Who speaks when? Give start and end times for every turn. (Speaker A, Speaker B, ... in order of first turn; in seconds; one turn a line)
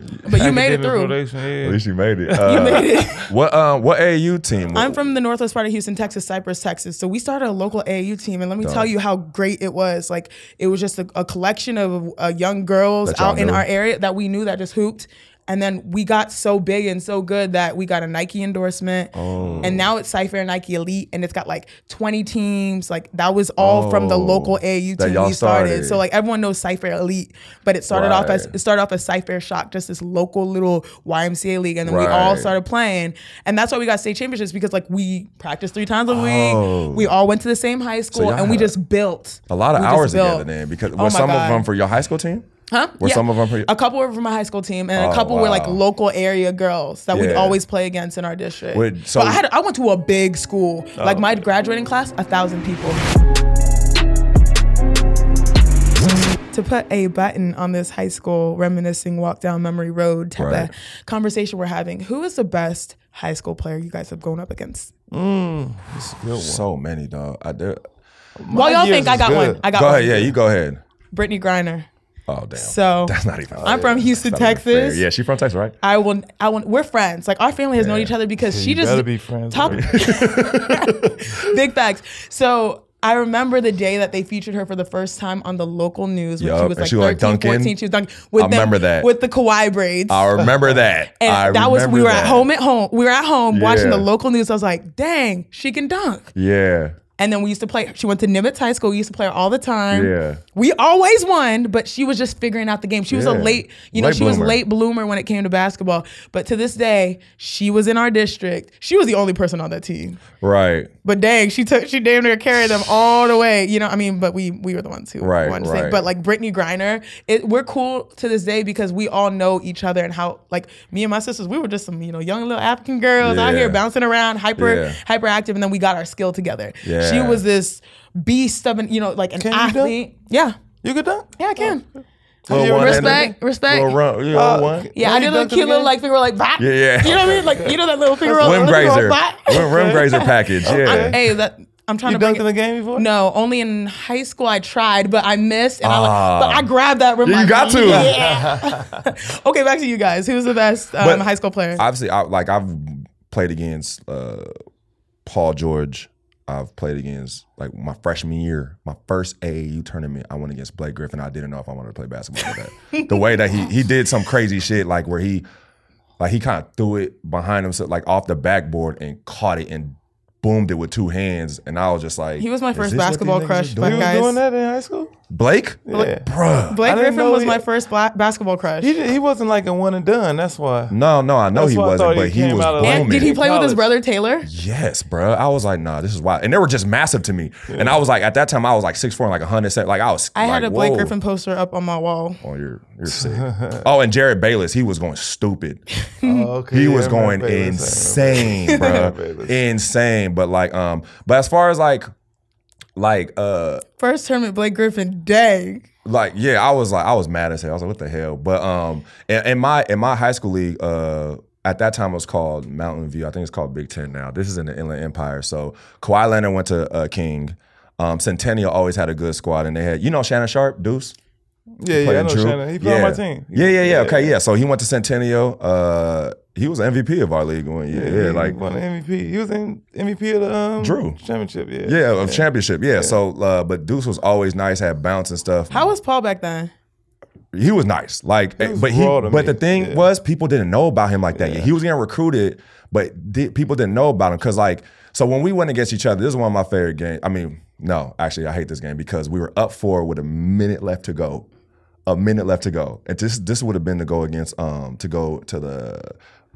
Speaker A: 0.2-1.2
Speaker B: 0.3-3.2
Speaker C: 1.6-5.0
Speaker A: 2.4-3.3
Speaker A: 4.7-41.7
Speaker C: 8.6-8.9
Speaker C: 13.1-13.7
Speaker C: 19.1-19.9
Speaker B: 19.4-19.8
Speaker C: 23.6-26.0
Speaker C: 27.9-28.5
Speaker C: 31.9-32.5
Speaker C: 36.1-37.1
Speaker C: 38.1-38.7
Speaker C: 39.5-42.5
Speaker A: 42.7-53.0
Speaker C: 43.0-43.7
Speaker C: 44.9-45.8
Speaker C: 47.1-47.6
Speaker C: 48.7-49.4
Speaker B: 51.0-51.4
Speaker A: 56.5-64.9
Speaker C: 60.4-60.7
Speaker B: 65.1-66.7
Speaker C: 66.2-67.8
Speaker B: 68.4-69.6
Speaker A: 68.5-70.3
Speaker C: 69.7-70.8
Speaker A: 71.1-71.9
Speaker C: 72.3-75.8
Speaker A: 72.6-75.0
Speaker B: 73.5-74.0
Speaker A: 75.8-90.5
Speaker C: 77.8-78.1
Speaker B: 78.4-80.0
Speaker C: 79.7-81.3
Speaker C: 86.4-87.8
Speaker C: 88.4-89.1
Speaker C: 90.1-92.5
Speaker A: 91.2-96.3
Speaker C: 93.5-94.1
Speaker C: 96.3-97.0
Speaker A: 97.2-110.2
Speaker C: 99.9-100.4
Speaker C: 103.1-104.6
Speaker C: 110.4-110.9
Speaker A: 111.0-130.6
Speaker C: 115.2-116.0
Speaker C: 123.2-123.8
Speaker C: 124.6-125.0
Speaker C: 126.8-127.4
Speaker B: 129.4-130.0
Speaker B: 130.8-131.8
Speaker A: 131.4-131.8
Speaker B: 132.5-133.4
Speaker C: 132.5-134.9
Speaker A: 132.5-134.0
Speaker B: 134.3-135.9
Speaker A: 134.9-151.8
Speaker C: 136.6-137.6
Speaker B: 137.2-139.1
Speaker C: 138.4-141.2
Speaker B: 139.6-140.1
Speaker B: 140.6-141.2
Speaker B: 142.1-143.1
Speaker C: 145.8-146.7
Speaker C: 147.2-148.2
Speaker B: 147.8-148.8
Speaker C: 151.0-154.5
Speaker C: 155.3-165.4
Speaker A: 162.9-163.2
Speaker C: 166.2-174.2
Speaker A: 172.4-174.4
Speaker B: 173.8-175.1
Speaker C: 175.3-176.8
Speaker B: 175.9-176.3
Speaker A: 176.7-178.9
Speaker B: 176.8-177.7
Speaker B: 178.8-180.9
Speaker C: 180.9-183.4
Speaker B: 181.5-183.9
Speaker A: 182.8-184.5
Speaker C: 184.4-191.1
Speaker B: 187.7-188.0
Speaker A: 190.3-192.4
Speaker C: 192.4-195.8
Speaker B: 193.1-193.8
Speaker A: 196.2-196.5
Speaker B: 196.2-199.6
Speaker C: 196.7-202.1
Speaker A: 198.7-199.1
Speaker C: 203.0-203.8
Speaker A: 204.0-205.8
Speaker C: 206.1-221.1
Speaker B: 221.8-224.4
Speaker C: 221.9-228.6
Speaker B: 227.9-233.2
Speaker C: 230.8-231.2
Speaker C: 231.8-235.8
Speaker A: 235.7-236.7
Speaker C: 237.5-251.4
Speaker B: 238.6-240.1
Speaker B: 241.3-241.7
Speaker C: 252.1-256.1